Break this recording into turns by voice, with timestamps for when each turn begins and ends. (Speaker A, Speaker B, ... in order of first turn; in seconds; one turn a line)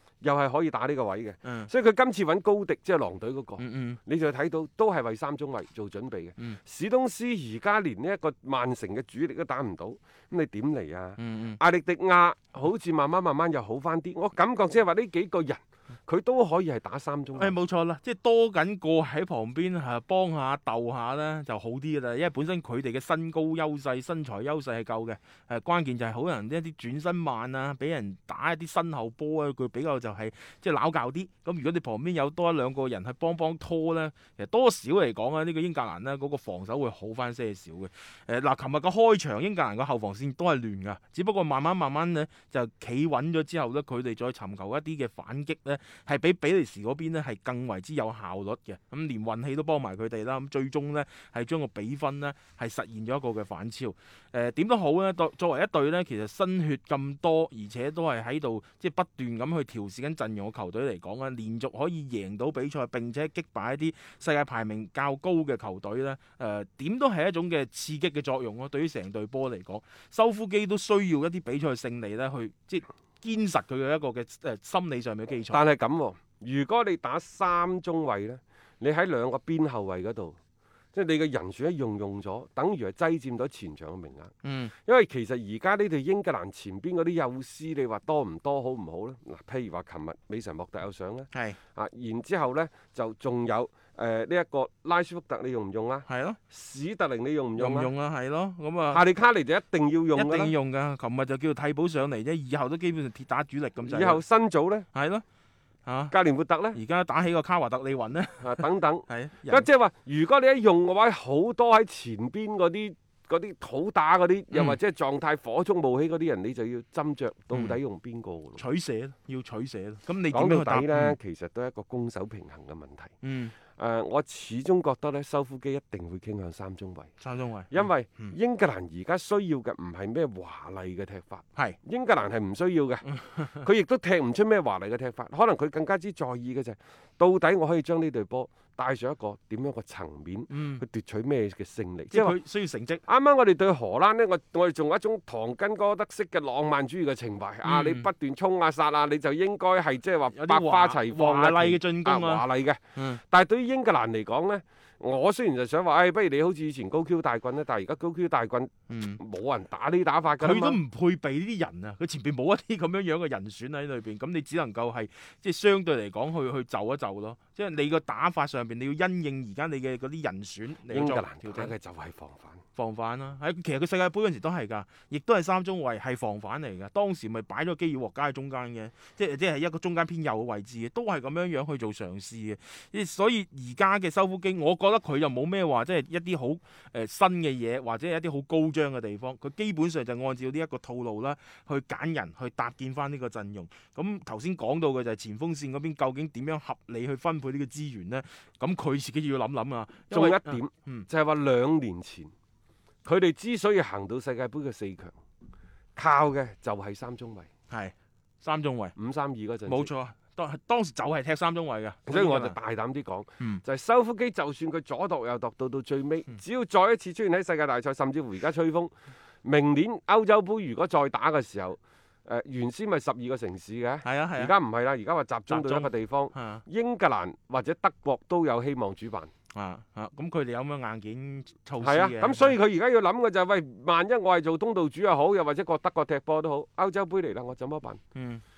Speaker A: 0.2-17.6
Speaker B: 1.4-1.7
Speaker B: 3.6-4.0
Speaker B: 11.2-11.6
Speaker B: 17.4-75.6
Speaker A: 75.5-80.4
Speaker A: 80.9-84.3
Speaker B: 84.4-84.7
Speaker A: 84.8-97.9
Speaker B: 91.3-91.6
Speaker B: 96.1-96.4
Speaker B: 97.6-99.0
Speaker A: 98.9-100.5
Speaker B: 100.1-104.2
Speaker A: 103.8-104.9
Speaker B: 104.9-105.2
Speaker B: 105.9-106.1
Speaker A: 106.1-106.8
Speaker B: 106.7-109.7
Speaker A: 108.4-118.6
Speaker B: 114.5-114.8
Speaker B: 117.5-117.8
Speaker B: 118.6-121.2
Speaker A: 120.3-123.2
Speaker B: 123.2-123.5
Speaker A: 123.8-127.1
Speaker B: 127.2-128.3
Speaker A: 127.7-142.4
Speaker B: 133.1-133.6
Speaker B: 140.5-140.8
Speaker B: 142.1-143.0
Speaker A: 143.1-160.8
Speaker B: 147.6-148.1
Speaker B: 150.3-153.2
Speaker B: 158.9-159.2
Speaker B: 160.4-171.7
Speaker A: 170.9-172.6
Speaker B: 172.8-201.1
Speaker A: 200.1-202.3
Speaker A: 203.1-205.2
Speaker A: 206.0-207.5
Speaker B: 207.7-208.9
Speaker A: 209.0-209.9
Speaker B: 209.7-212.6
Speaker A: 212.1-218.9
Speaker A: 219.4-229.3
Speaker B: 224.0-224.5
Speaker B: 225.5-226.6
Speaker B: 229.5-232.6
Speaker A: 231.8-238.0
Speaker B: 238.2-238.4